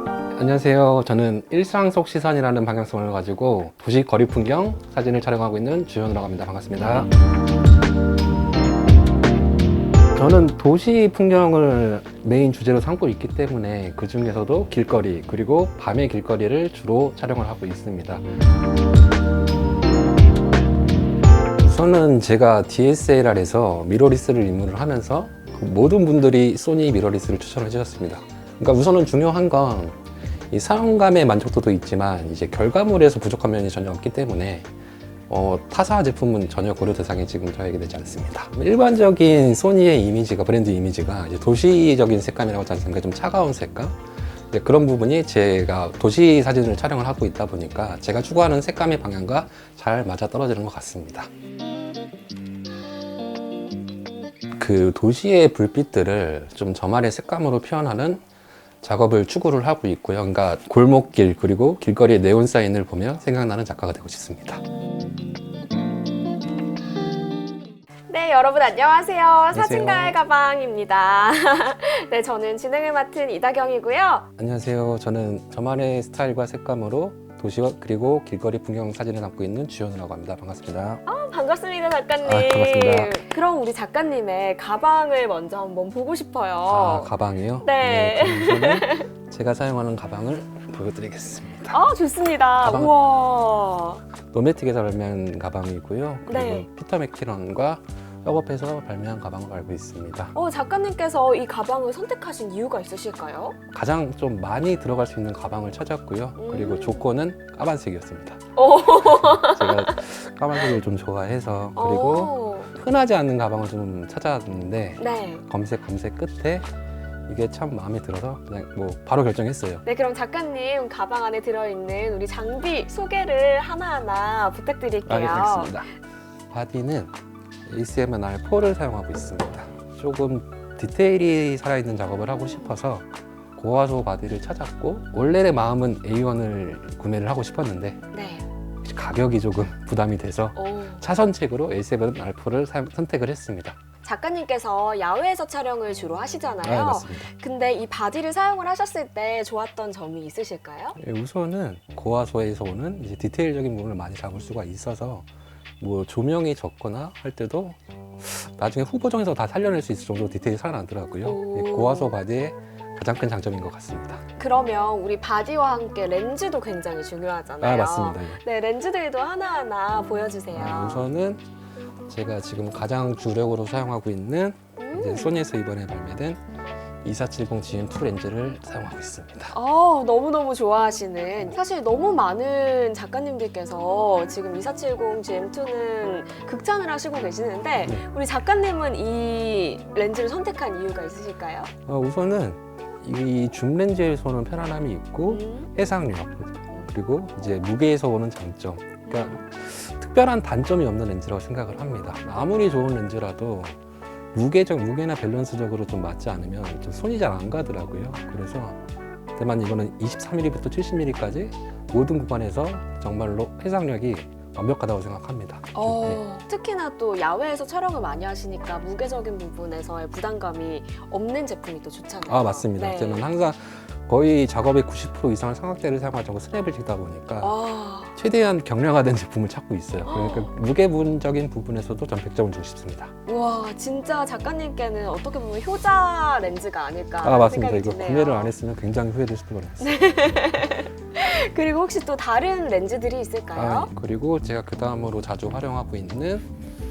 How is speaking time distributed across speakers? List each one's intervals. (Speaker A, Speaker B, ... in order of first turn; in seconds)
Speaker A: 0.3-7.1, 10.1-18.2, 21.6-34.7, 35.3-51.3, 54.6-58.2, 58.8-64.6, 69.5-70.2, 74.4-81.0, 82.2-83.1, 86.7-91.8, 92.6-92.9, 94.3-100.3, 103.7-108.4, 109.0-116.7, 117.3-119.8, 125.0-125.9, 126.5-127.1, 127.7-138.0, 138.8-143.8, 146.6-147.3, 151.0-155.3, 155.8-164.2, 167.6-168.4, 170.5-171.4, 172.1-176.4, 177.0-179.5, 191.8-203.8, 204.3-208.8, 209.3-216.2, 222.2-227.6, 228.1-233.1, 237.2-240.0, 243.5-246.4
Speaker B: 68.1-74.2, 81.1-89.1, 91.7-94.0, 96.3-96.7, 100.3-103.6, 106.4-107.1, 108.5-110.0, 111.8-112.7, 115.0-115.4, 119.8-125.9, 138.1-138.4, 140.6-141.0, 144.0-151.0, 161.2-162.2, 164.4-171.1, 174.8-175.4, 179.5-191.7, 195.3-195.7, 199.1-199.4, 215.7-223.3, 227.4-228.1, 230.1-230.5, 233.3-238.5, 239.8-243.9